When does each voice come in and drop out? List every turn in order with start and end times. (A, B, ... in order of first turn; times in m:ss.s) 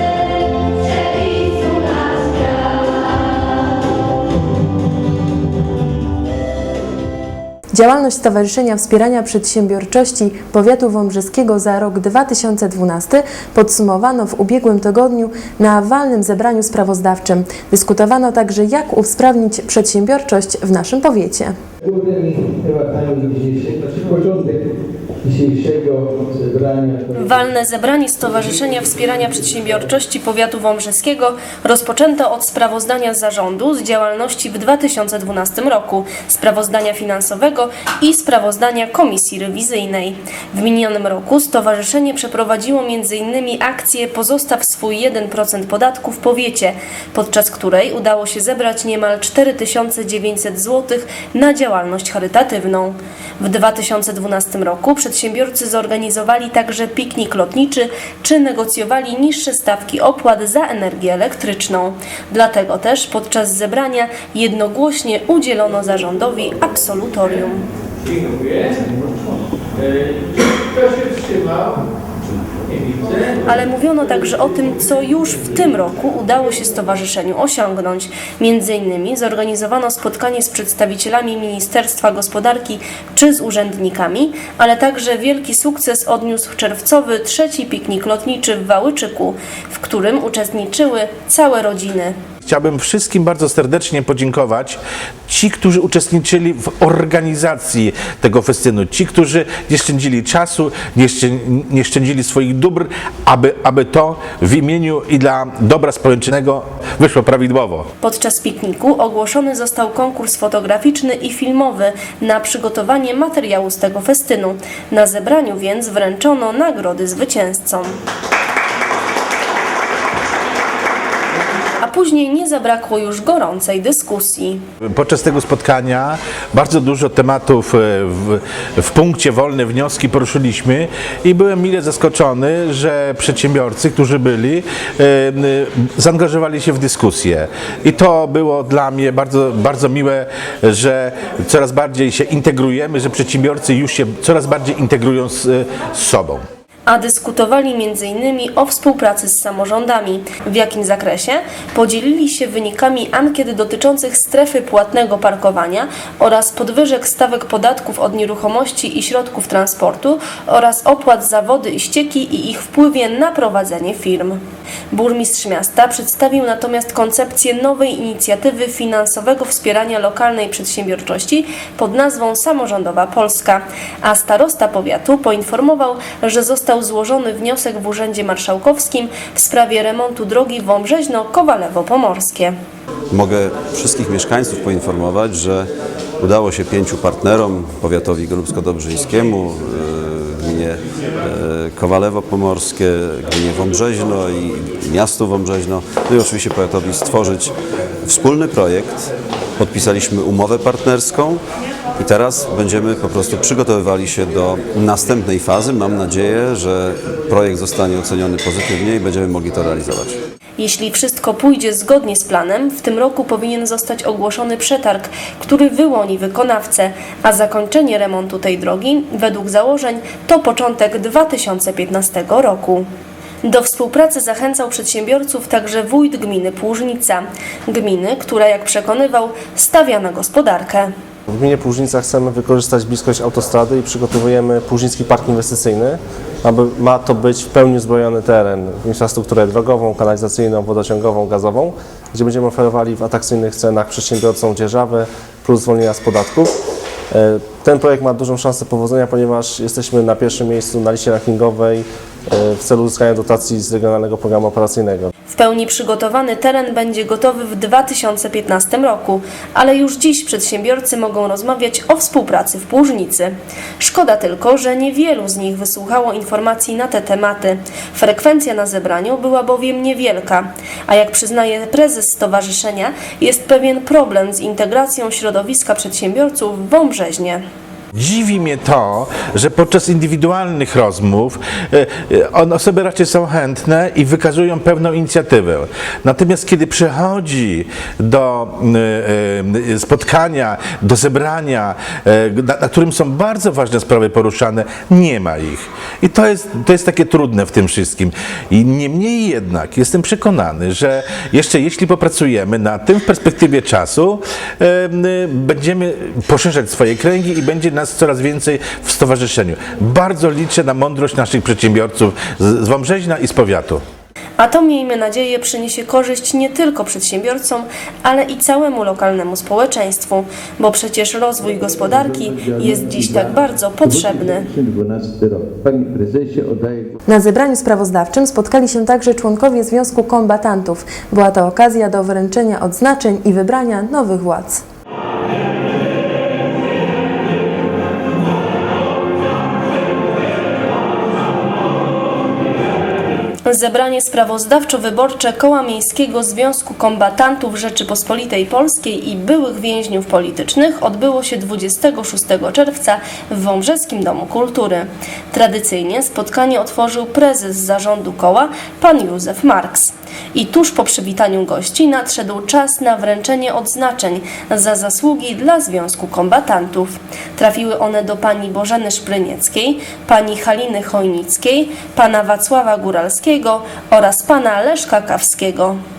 0:07.7-0:21.5 A
0:21.9-0:24.5 B
0:25.3-0:27.0 B
0:27.1-1:07.6 C
1:13.4-1:32.2 C
1:32.4-1:47.9 D
1:48.0-1:58.0 C
2:01.8-2:04.6 C
2:04.8-2:26.4 D
2:26.9-2:44.4 C
2:44.9-3:02.6 C
3:03.1-3:05.7 E
3:06.2-3:17.5 E
3:18.0-3:21.4 E
3:22.0-3:30.2 E
3:30.6-3:42.9 C
3:43.4-3:50.9 C
3:51.3-4:06.5 F
4:07.1-4:15.1 F
4:15.3-4:37.4 C
4:38.0-5:13.8 D
5:14.4-5:24.5 C
5:21.6-5:27.0 B
5:27.1-5:34.6 A
5:43.5-6:15.8 C